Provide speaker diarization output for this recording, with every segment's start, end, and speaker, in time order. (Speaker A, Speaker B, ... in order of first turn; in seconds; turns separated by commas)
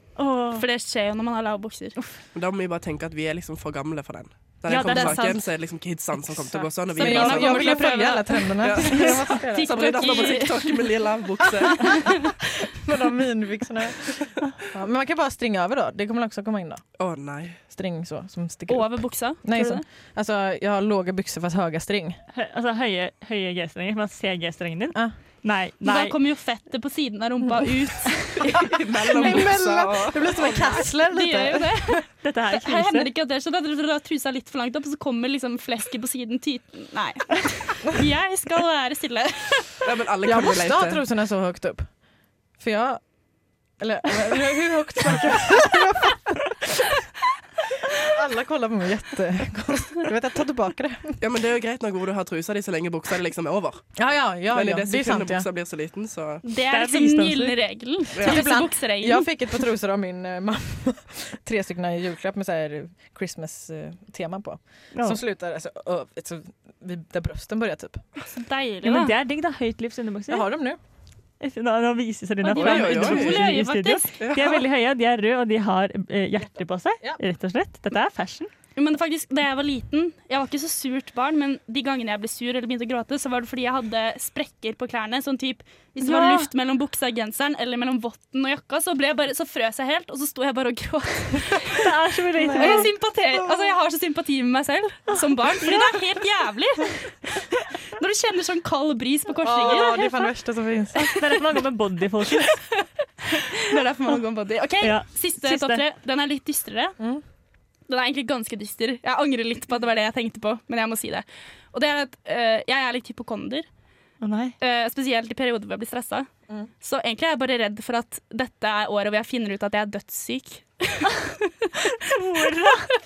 Speaker A: 0.2-0.6, Speaker B: 0.5-1.9, Speaker C: 2.4-8.0, Speaker A: 4.7-5.4, Speaker D: 4.8-5.1, Speaker D: 6.9-10.5, Speaker B: 7.0-10.8, Speaker C: 8.6-12.1, Speaker B: 11.8-12.1, Speaker D: 12.6-16.8, Speaker C: 17.0-17.6, Speaker D: 17.7-22.2, Speaker B: 18.7-19.8, Speaker A: 22.3-26.1, Speaker B: 25.8-29.5, Speaker C: 28.5-30.4, Speaker D: 29.1-32.0, Speaker B: 30.4-39.8, Speaker A: 32.2-33.1, Speaker C: 39.8-41.0, Speaker D: 40.2-41.9, Speaker D: 42.6-43.0, Speaker D: 43.8-46.9, Speaker D: 48.0-51.2, Speaker C: 51.2-53.8, Speaker D: 54.0-55.5, Speaker C: 54.5-56.4, Speaker B: 56.4-59.3, Speaker A: 56.7-57.6, Speaker D: 58.2-68.0, Speaker A: 64.9-65.2, Speaker B: 68.2-69.1, Speaker A: 68.8-70.5, Speaker D: 70.3-70.8, Speaker A: 71.4-78.5, Speaker B: 72.4-74.1, Speaker C: 72.5-74.6, Speaker D: 76.4-77.2, Speaker B: 78.8-91.9, Speaker A: 86.0-86.5, Speaker A: 91.8-92.9, Speaker D: 92.4-92.9, Speaker B: 92.5-100.3, Speaker A: 95.1-95.7, Speaker D: 99.4-101.2, Speaker A: 101.0-102.6, Speaker B: 102.7-107.0, Speaker A: 104.8-105.8, Speaker B: 107.9-113.6, Speaker A: 114.2-114.5, Speaker B: 114.6-116.3, Speaker B: 116.8-122.0, Speaker A: 122.0-122.9